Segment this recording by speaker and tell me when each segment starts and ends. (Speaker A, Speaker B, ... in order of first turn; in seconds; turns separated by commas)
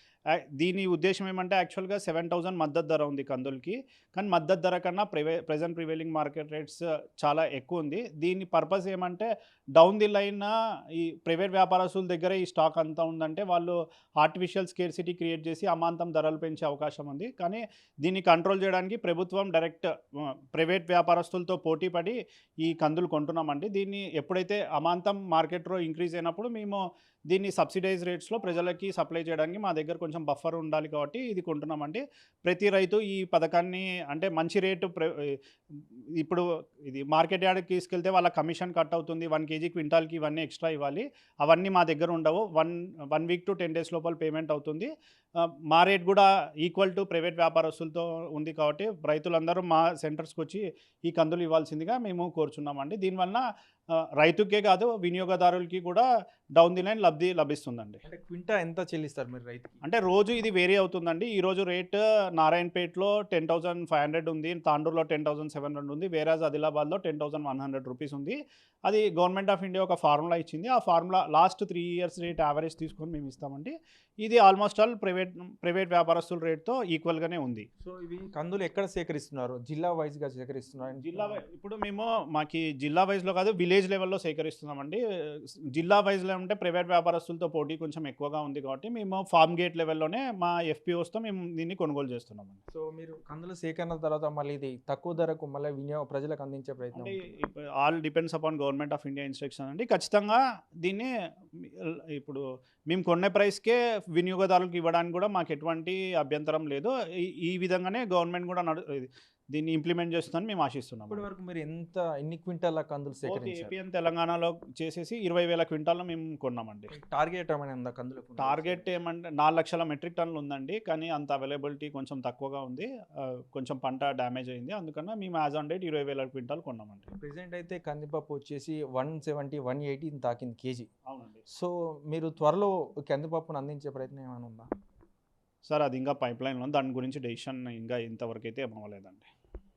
Speaker A: 0.3-56.0, Speaker A: 56.6-58.0, Speaker B: 58.0-59.8, Speaker A: 59.8-77.7, Speaker B: 77.8-81.4, Speaker A: 81.0-92.6, Speaker B: 92.7-97.3, Speaker A: 96.9-111.2, Speaker B: 111.1-113.7, Speaker A: 113.3-116.9, Speaker B: 116.9-118.9, Speaker A: 118.4-127.1, Speaker B: 127.2-130.9, Speaker A: 131.1-131.4, Speaker B: 131.5-134.7, Speaker A: 135.7-139.3